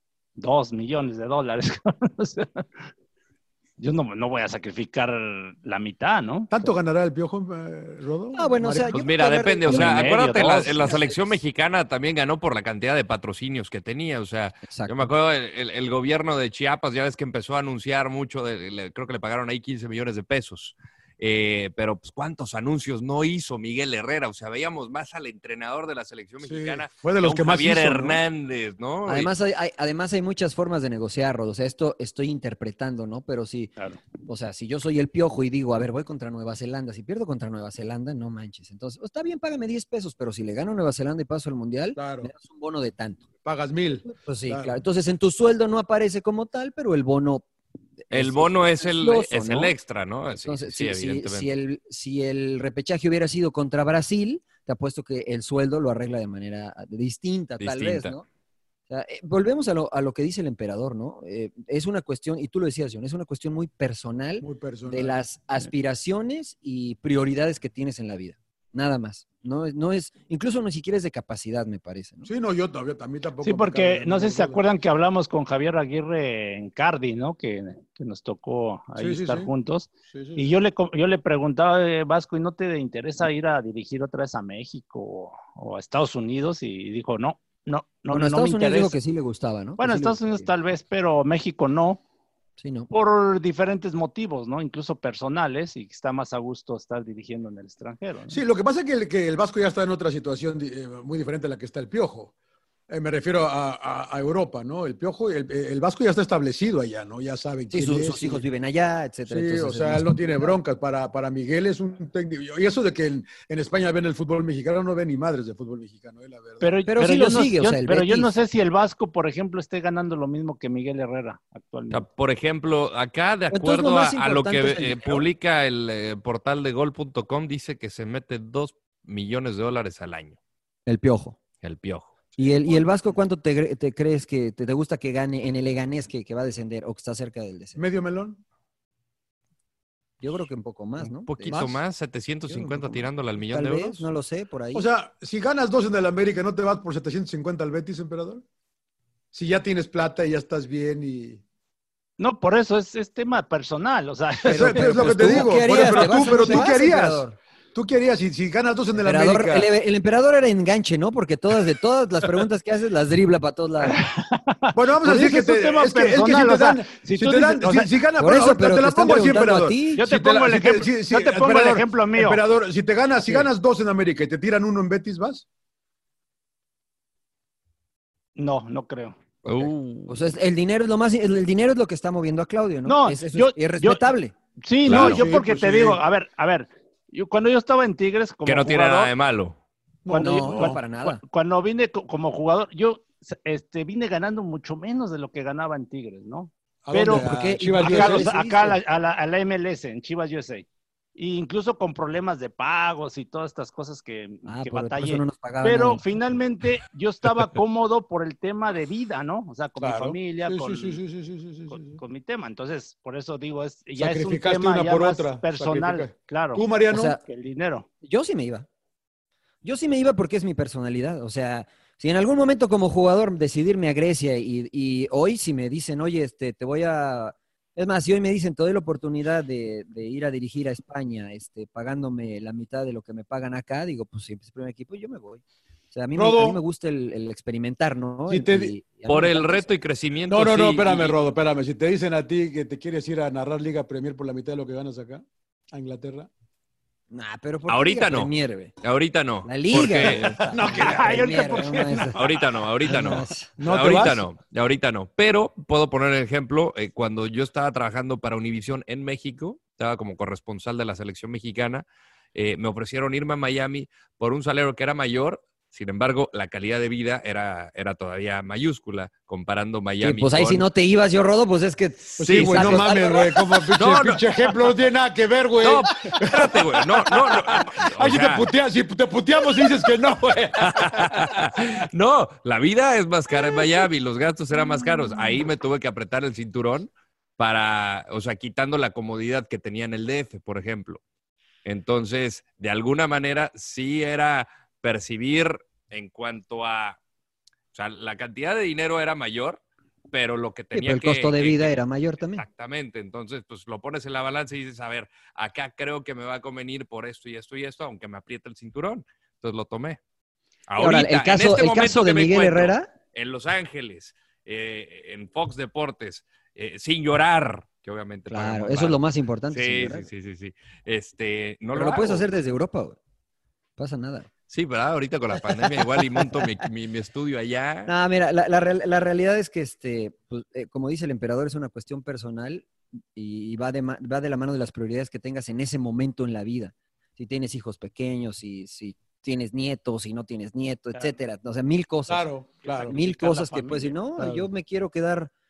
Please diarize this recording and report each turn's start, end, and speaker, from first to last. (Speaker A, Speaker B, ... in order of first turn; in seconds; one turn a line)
Speaker A: 0.4-2.6
Speaker A: 3.8-6.7
Speaker B: 6.5-9.0
Speaker C: 8.3-11.4
Speaker D: 8.9-29.3
Speaker A: 9.7-10.9
Speaker C: 14.7-15.1
Speaker B: 26.4-28.2
Speaker C: 29.1-43.2
Speaker B: 42.0-42.3
Speaker B: 43.4-44.8
Speaker C: 44.0-47.4
Speaker C: 48.0-49.8
Speaker D: 48.1-51.5
Speaker C: 50.3-58.2
Speaker D: 57.6-58.1
Speaker C: 58.9-72.3
Speaker B: 64.4-65.6
Speaker B: 72.2-74.6
Speaker A: 73.4-89.0
Speaker B: 79.0-79.5
Speaker B: 80.1-80.5
Speaker C: 88.1-90.5
Speaker A: 89.8-92.0
Speaker C: 92.6-92.9
Speaker A: 92.9-98.4
Speaker B: 98.3-102.3
Speaker B: 102.9-108.4
Speaker C: 107.7-110.6
Speaker B: 109.3-116.7
Speaker A: 116.6-122.0
Speaker C: 116.9-118.3
Speaker D: 121.9-130.4
Speaker C: 123.5-125.3
Speaker C: 130.8-131.4
Speaker D: 131.6-132.3
Speaker C: 132.4-137.8
Speaker B: 137.8-138.4
Speaker C: 140.2-141.8
Speaker D: 141.0-144.1
Speaker C: 142.5-144.9
Speaker B: 144.7-148.4
Speaker B: 149.3-151.4
Speaker A: 152.2-156.7
Speaker B: 154.4-159.7
Speaker C: 154.5-157.4
Speaker C: 159.0-164.0
Speaker A: 163.8-167.9
Speaker B: 164.7-175.4
Speaker C: 168.2-170.0
Speaker A: 169.9-172.4
Speaker C: 173.2-173.5
Speaker A: 178.3-179.7
Speaker D: 179.4-180.0
Speaker C: 180.1-184.3
Speaker A: 182.8-184.0
Speaker A: 184.6-189.1
Speaker D: 184.8-185.2
Speaker B: 184.9-186.0
Speaker D: 188.4-189.6
Speaker B: 190.0-190.8
Speaker A: 190.1-211.0
Speaker C: 190.2-191.2
Speaker B: 196.8-198.3
Speaker C: 197.0-198.8
Speaker C: 204.4-206.1
Speaker B: 209.8-212.0
Speaker A: 211.7-216.6
Speaker B: 214.0-217.2
Speaker C: 216.9-217.2
Speaker A: 217.2-217.8
Speaker C: 218.0-218.7
Speaker C: 219.6-239.7
Speaker B: 236.1-236.6
Speaker B: 238.3-238.8
Speaker D: 239.1-241.2
Speaker B: 240.3-246.3
Speaker C: 247.1-248.7
Speaker D: 247.7-250.4
Speaker C: 249.4-252.2
Speaker B: 250.3-251.9
Speaker A: 250.7-252.4
Speaker D: 252.1-270.6
Speaker C: 252.8-253.6
Speaker B: 253.6-254.2
Speaker C: 270.0-273.7
Speaker D: 272.2-273.0
Speaker B: 272.2-281.4
Speaker D: 273.7-274.2
Speaker D: 275.6-278.5
Speaker D: 280.2-291.0
Speaker D: 291.6-297.0
Speaker D: 297.7-301.8
Speaker C: 300.7-302.4
Speaker D: 302.3-310.0
Speaker D: 310.7-319.0
Speaker C: 310.8-312.9
Speaker C: 318.3-320.1
Speaker D: 319.5-322.3
Speaker C: 321.7-323.0
Speaker C: 323.8-324.3
Speaker D: 324.5-327.9
Speaker C: 325.4-326.5
Speaker C: 327.9-342.2
Speaker B: 342.1-343.0
Speaker A: 342.6-344.0
Speaker C: 342.9-345.3
Speaker B: 344.2-344.5